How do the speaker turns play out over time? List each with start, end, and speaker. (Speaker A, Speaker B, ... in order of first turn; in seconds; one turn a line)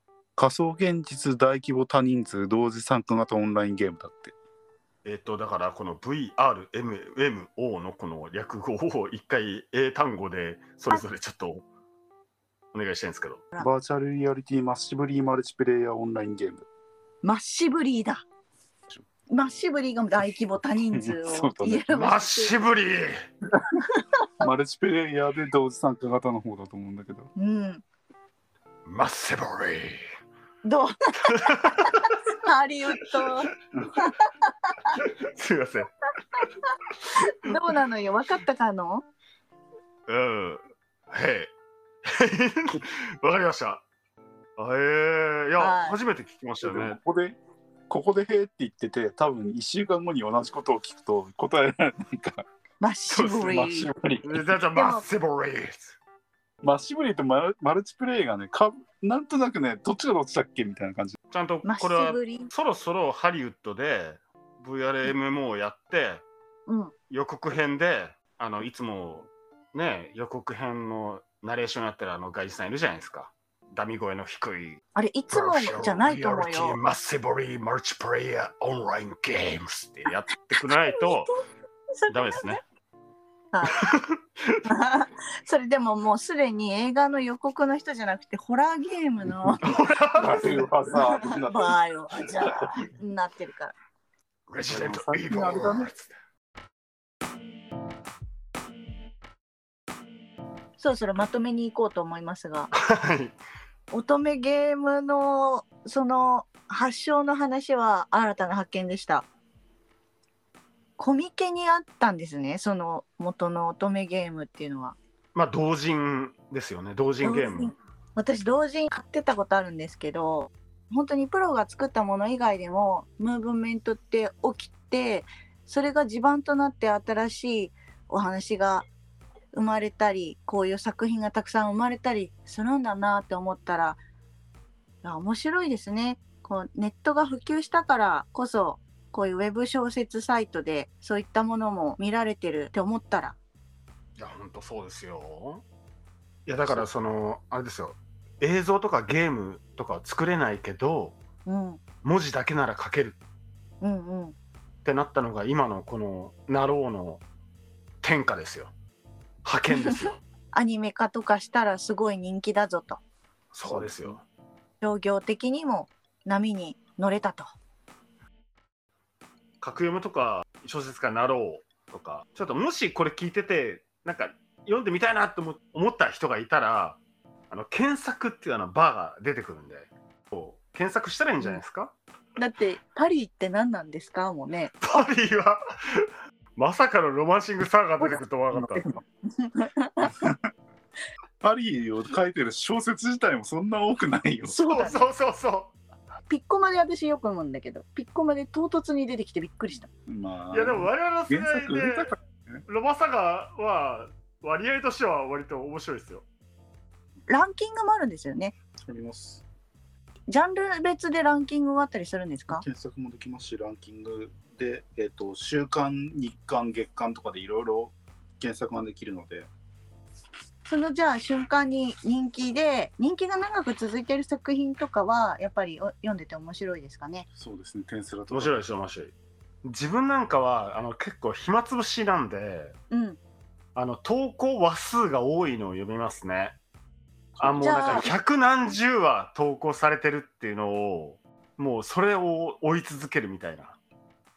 Speaker A: 0.4-4.3
Speaker B: 5.0-11.6
Speaker B: 12.7-13.4
Speaker A: 13.6-16.7
Speaker C: 17.2-18.2
Speaker C: 19.3-22.5
Speaker A: 20.9-21.9
Speaker B: 21.9-23.3
Speaker A: 23.5-23.9
Speaker A: 24.4-27.3
Speaker C: 27.4-27.8
Speaker B: 28.9-30.1
Speaker C: 30.6-35.0
Speaker B: 31.2-32.2
Speaker B: 35.0-36.5
Speaker C: 36.3-39.0
Speaker B: 37.0-37.6
Speaker B: 40.1-41.5
Speaker B: 42.0-43.8
Speaker B: 44.6-47.0
Speaker C: 45.6-46.0
Speaker A: 46.6-52.5
Speaker C: 52.8-53.9
Speaker A: 53.2-54.6
Speaker B: 54.2-56.0
Speaker C: 54.8-55.0
Speaker A: 56.6-61.2
Speaker B: 61.3-66.2
Speaker C: 61.6-62.5
Speaker C: 66.7-66.9
Speaker B: 67.1-74.8
Speaker C: 75.0-76.8
Speaker B: 75.3-81.3
Speaker C: 80.8-81.3
Speaker C: 81.9-82.6
Speaker B: 82.1-82.6
Speaker C: 83.5-84.0
Speaker B: 83.6-84.6
Speaker C: 84.7-93.8
Speaker B: 89.6-90.6
Speaker A: 90.2-92.5
Speaker B: 94.5-96.1
Speaker A: 94.7-95.9
Speaker C: 95.3-95.8
Speaker C: 100.8-102.7
Speaker B: 102.7-103.4
Speaker C: 103.9-109.3
Speaker C: 111.0-115.0
Speaker B: 115.3-117.7
Speaker C: 117.2-128.9
Speaker C: 129.5-134.0
Speaker C: 135.0-143.4
Speaker B: 144.2-145.6
Speaker B: 146.5-151.2
Speaker C: 151.5-151.8
Speaker B: 152.0-153.2
Speaker C: 153.8-154.3
Speaker B: 154.8-157.2
Speaker B: 158.0-158.7
Speaker B: 159.4-160.2
Speaker C: 159.7-163.0
Speaker B: 163.5-164.2
Speaker A: 163.7-164.1
Speaker C: 164.8-167.5
Speaker B: 169.6-177.0
Speaker B: 177.5-181.9
Speaker C: 182.4-184.8
Speaker B: 184.8-188.9
Speaker C: 188.0-190.2
Speaker A: 190.1-190.3
Speaker A: 191.4-194.6
Speaker C: 194.5-195.1
Speaker B: 194.7-195.7
Speaker C: 196.3-199.9
Speaker A: 200.1-202.6
Speaker B: 200.5-202.2
Speaker B: 202.7-206.2
Speaker C: 207.3-208.5
Speaker A: 208.8-209.4
Speaker C: 210.3-212.6
Speaker A: 212.5-219.5
Speaker C: 220.7-227.3
Speaker A: 227.3-228.6
Speaker B: 228.3-229.1
Speaker B: 229.6-232.8
Speaker C: 232.9-233.2
Speaker B: 233.8-236.6
Speaker A: 237.4-238.1
Speaker B: 237.4-243.8
Speaker C: 237.6-238.1